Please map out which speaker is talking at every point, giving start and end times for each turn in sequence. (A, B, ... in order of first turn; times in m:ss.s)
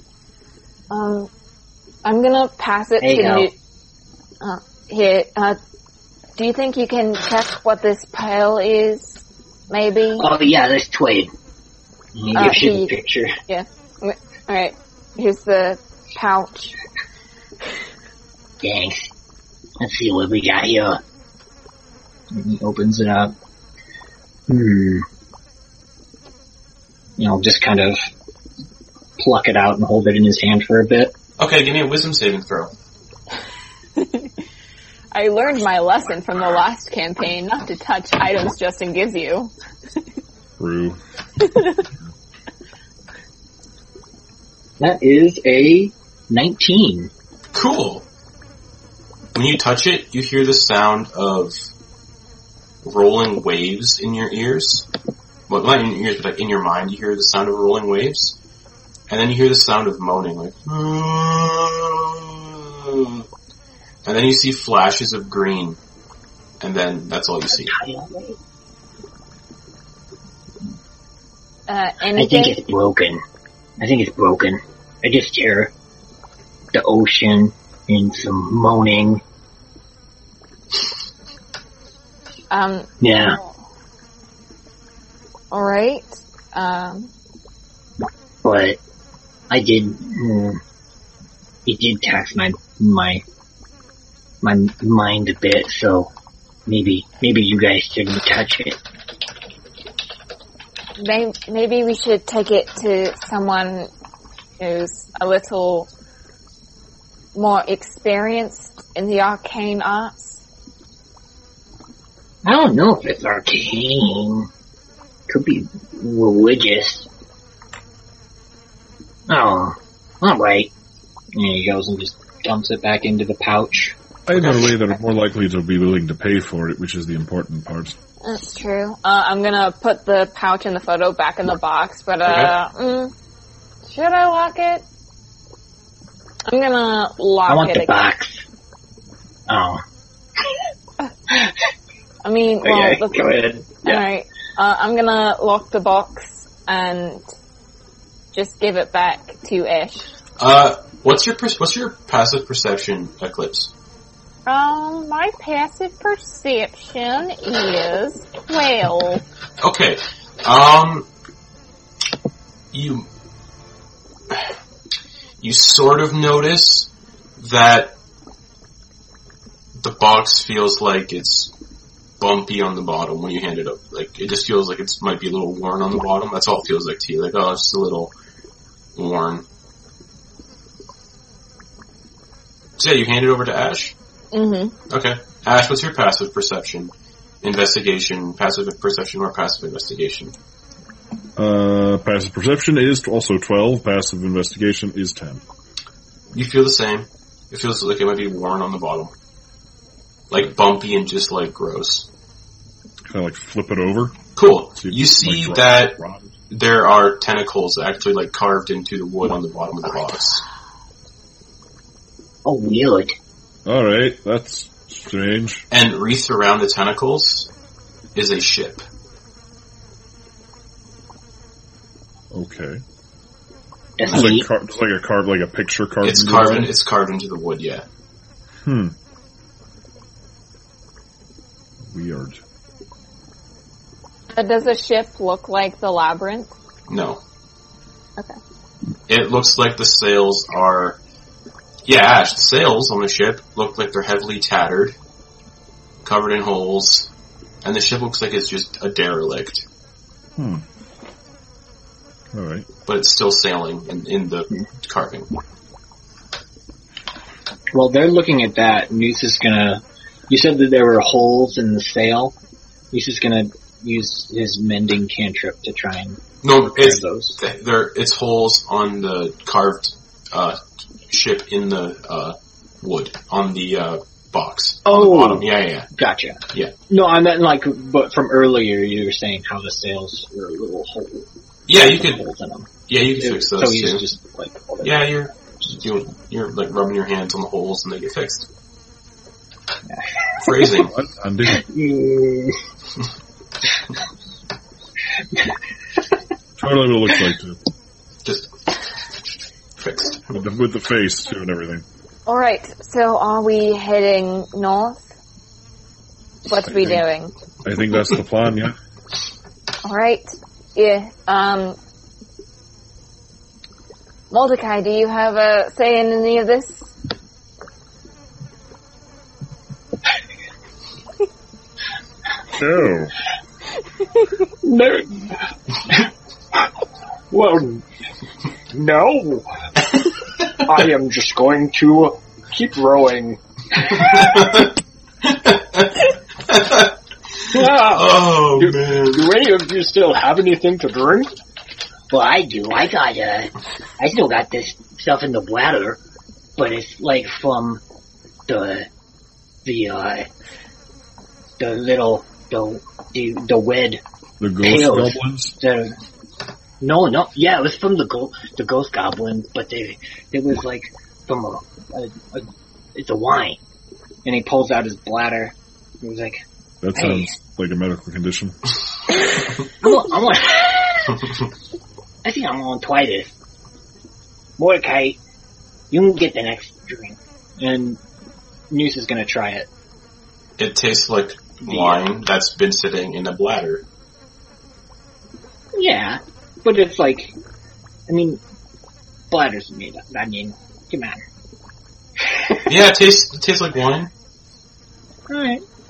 0:00.9-0:01.3 A
0:02.0-0:03.5 A
0:03.0-0:03.5 B
0:04.4-0:05.6 A
0:06.4-0:10.3 A
0:10.2-0:11.3 B
0:12.2-0:13.3 B
0:12.4-0:12.9 A
0:13.5-0:16.7 A
0:18.6-0:19.1 B
0:19.8-0:21.0 B
0:22.3-0:23.3 C
0:24.5-0:25.0 C
0:27.2-0:28.0 C
0:29.2-0:31.1 C
0:31.4-0:32.7 D
0:34.0-0:34.3 A
0:35.1-0:39.5 A
0:40.6-0:41.0 E
0:41.4-0:41.8 A
0:44.8-0:47.1 C
0:47.5-0:48.1 D
0:49.3-0:51.7 D
0:52.8-0:54.9 D
0:55.5-0:58.4 D
0:59.1-1:03.2 D
1:04.0-1:05.8 D
1:06.6-1:07.7 D
1:07.5-1:08.4 B
1:11.7-1:12.6 A
1:12.1-1:13.2 B
1:13.8-1:15.7 B
1:16.7-1:19.2 B
1:22.5-1:23.5 A
1:23.0-1:23.4 B
1:25.5-1:27.1 A
1:28.4-1:28.8 B
1:29.5-1:30.6 B
1:31.6-1:33.2 B
1:34.4-1:36.1 B
1:36.6-1:38.8 B
1:41.0-1:43.9 A
1:44.6-1:45.9 A
1:47.4-1:50.4 A
1:52.4-1:54.5 B
1:55.3-1:57.1 B
1:59.3-2:00.7 B
2:01.4-2:03.9 C
2:04.2-2:08.0 E
2:04.4-2:04.7 D
2:08.2-2:13.1 A
2:12.2-2:12.6 D
2:13.9-2:14.8 A
2:16.5-2:18.0 A
2:17.5-2:18.4 B
2:19.5-2:19.8 B
2:22.2-2:27.2 A
2:22.6-2:24.0 B
2:28.3-2:30.1 A
2:30.4-2:33.7 D
2:34.4-2:39.2 A
2:39.6-2:41.1 D
2:42.7-2:43.1 D
2:45.4-2:48.0 D
2:49.8-2:51.5 D
2:52.2-2:58.1 D
2:59.0-2:59.4 D
3:02.8-3:04.0 D
3:04.3-3:04.7 A
3:04.9-3:10.3 D
3:11.4-3:15.4 E
3:16.3-3:19.1 D
3:20.3-3:22.1 D
3:23.1-3:24.2 E
3:24.4-3:26.0 D
3:24.8-3:26.3 E
3:26.5-3:30.4 D
3:32.4-3:33.1 B
3:33.7-3:35.6 E
3:35.7-3:37.5 D
3:38.1-3:38.8 D
3:42.3-3:42.8 E
3:44.0-3:44.5 B
3:44.0-3:46.7 E
3:46.0-3:47.8 D
3:48.6-3:48.9 E
3:51.9-3:52.4 E
3:54.3-3:56.5 A
3:56.9-3:57.2 D
3:59.1-4:01.0 D
4:01.8-4:05.0 D
4:06.0-4:07.1 D
4:07.6-4:09.6 D
4:10.4-4:10.6 E
4:12.3-4:12.7 E
4:12.9-4:15.3 D
4:17.7-4:22.3 C
4:22.9-4:27.4 C
4:26.4-4:35.9 D
4:34.9-4:46.0 C
4:41.7-4:42.2 D
4:42.9-4:44.0 D
4:44.8-4:48.4 D
4:50.4-4:50.9 D
4:50.8-4:51.7 E
4:51.7-4:52.5 C
4:56.6-4:57.6 E
4:58.2-4:58.5 D
4:59.8-5:00.4 D
5:00.3-5:01.8 E
5:02.3-5:05.0 A
5:06.5-5:07.3 A
5:06.7-5:07.0 E
5:07.6-5:08.7 E
5:09.8-5:11.8 A
5:14.3-5:16.9 A
5:22.5-5:23.1 E
5:24.6-5:25.3 C
5:27.3-5:27.8 C
5:28.7-5:29.4 C
5:30.7-5:33.8 C
5:34.0-5:34.7 D
5:35.2-5:39.4 D
5:37.6-5:38.0 C
5:38.6-5:41.3 C
5:42.1-5:46.0 B
5:46.6-5:47.8 B
5:48.5-5:48.9 B
5:49.6-5:50.3 B
5:51.6-5:54.0 B
5:54.4-5:55.6 E
5:54.6-5:56.0 B
5:56.8-6:02.4 B
6:03.0-6:03.6 B
6:04.2-6:06.3 C
6:06.8-6:08.6 E
6:06.9-6:07.3 B
6:09.8-6:11.1 B
6:12.2-6:13.3 B
6:14.6-6:15.2 B
6:15.9-6:17.2 B
6:17.6-6:18.0 C
6:18.7-6:19.7 C
6:20.6-6:23.8 D
6:21.7-6:22.0 B
6:25.8-6:27.3 C
6:28.1-6:28.4 C
6:29.3-6:31.2 C
6:32.7-6:34.1 D
6:35.3-6:35.6 C